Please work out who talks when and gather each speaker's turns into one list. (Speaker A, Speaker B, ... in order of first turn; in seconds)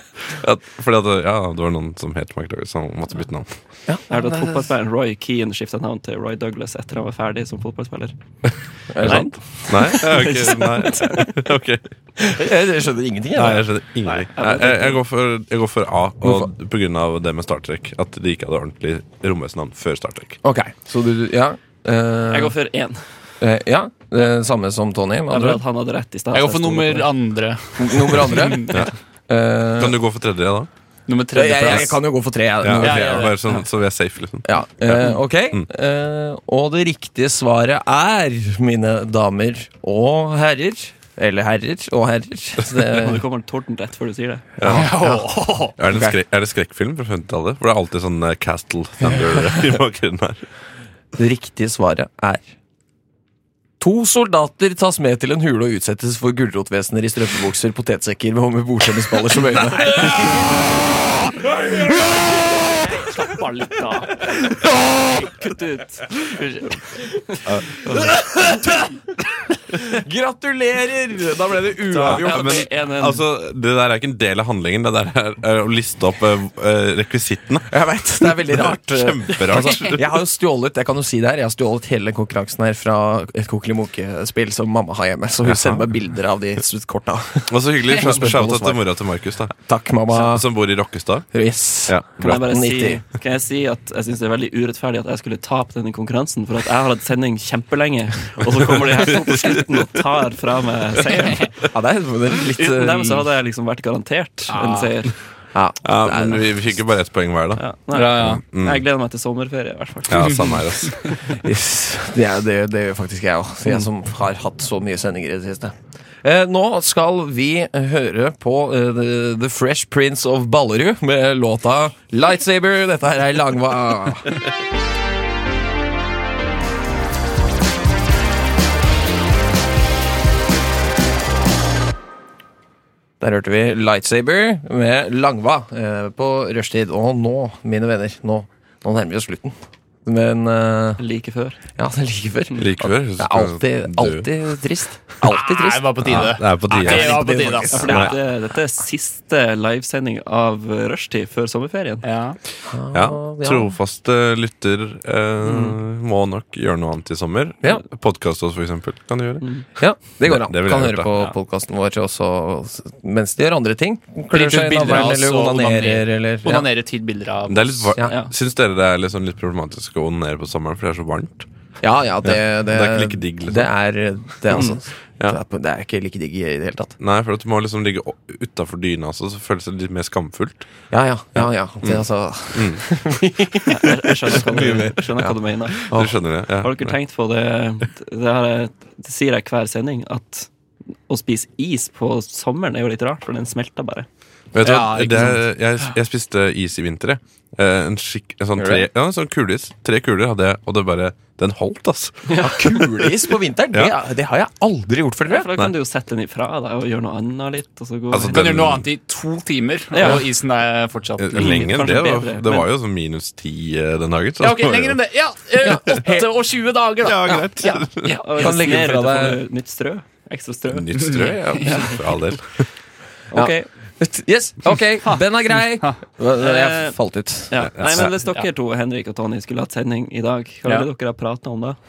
Speaker A: 0.3-3.5, 9.1-11.9, 13.3-20.4, 29.8-30.7, 32.6-35.6, 44.6-44.9, 45.8-50.5, 67.5-68.1, 72.1-77.7, 78.4-80.1, 85.5-85.8, 87.5-89.5, 90.1-91.3, 91.9-92.5, 105.8-107.7, 108.2-108.8, 110.1-111.0, 142.6-144.3, 146.0-148.2, 152.9-161.1, 167.5-171.5, 172.2-173.7, 177.0-180.7, 181.8-182.9, 184.6-185.0, 185.8-187.0, 194.5-203.1, 208.1-208.9, 211.2-215.0, 217.0-218.2, 220.7-222.7, 227.6-228.2
Speaker B: 3.9-4.7, 8.9-10.0, 12.2-13.7, 16.2-16.5, 20.4-22.5, 23.4-25.6, 27.8-30.0, 31.3-33.2, 34.5-43.2, 44.6-46.1, 51.1-52.5, 53.8-63.1, 64.3-65.3, 67.8-68.9, 69.8-72.7, 77.7-88.8, 89.5-90.5, 91.3-93.0, 101.7-103.3, 105.5-106.7, 111.3-124.3, 133.2-141.0, 141.8-148.2, 152.7-153.8, 159.8-166.7, 171.8-177.0, 180.9-185.3, 185.9-186.2, 198.6-198.9, 202.4-205.5, 215.6-216.3, 218.3-219.4, 223.3-227.6
Speaker C: 4.1-8.1, 9.0-11.3, 14.0-15.0, 22.3-23.0, 25.3-27.1, 42.8-44.6, 62.9-64.4, 65.2-67.4, 71.9-73.2, 92.2-101.5, 102.6-105.1, 107.6-110.5, 141.0-141.6, 147.7-152.1, 155.4-155.7, 159.4-159.7, 168.0-168.3, 174.5-174.8, 183.7-185.9, 186.6-190.5, 191.1-194.1, 205.3-208.7, 209.9-210.2, 211.3-212.7, 218.0-222.0, 223.3-223.7, 226.4-231.8
Speaker D: 26.3-28.9, 31.1-32.0, 32.7-33.4, 44.6-45.7, 101.1-101.5, 104.5-105.0, 107.9-108.4, 110.2-111.1, 145.2-148.0, 152.0-152.4, 164.3-167.9, 194.6-196.0, 208.3-211.8, 214.4-217.9, 221.0-222.0, 225.0-226.0, 228.2-228.5